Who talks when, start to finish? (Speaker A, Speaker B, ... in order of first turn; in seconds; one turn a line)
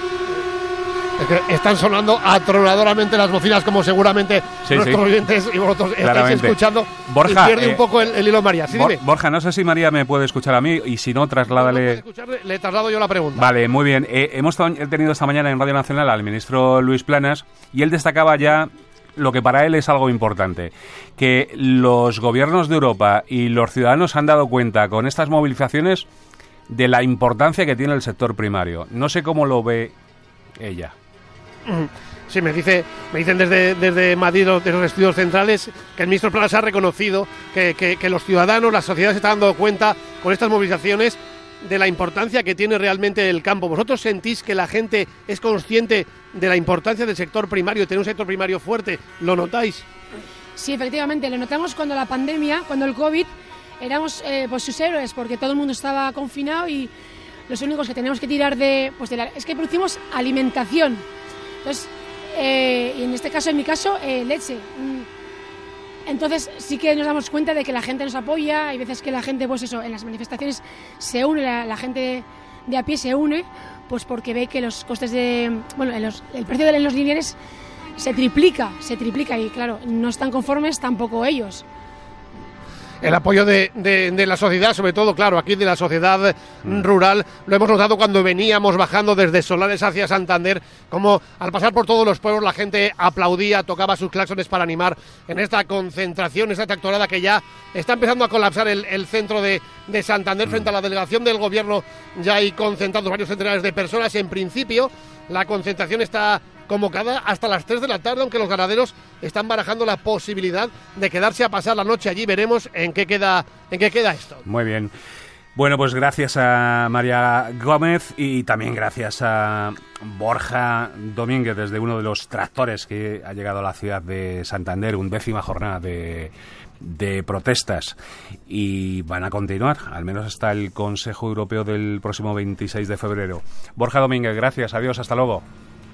Speaker A: 1.2-9.0
Speaker B: 4.7-5.0
Speaker B: 6.0-7.8
Speaker B: 8.7-12.0
Speaker A: 11.5-13.4
Speaker B: 13.4-26.1
Speaker B: 26.7-29.9
Speaker B: 30.6-30.9
Speaker A: 31.7-49.9
Speaker C: 50.6-56.9
Speaker C: 57.5-61.0
Speaker C: 61.6-65.1
Speaker C: 66.1-77.4
Speaker C: 78.0-81.6
Speaker A: 83.0-114.4
Speaker B: 114.5-114.9
Speaker B: 115.5-128.0
Speaker B: 128.5-135.4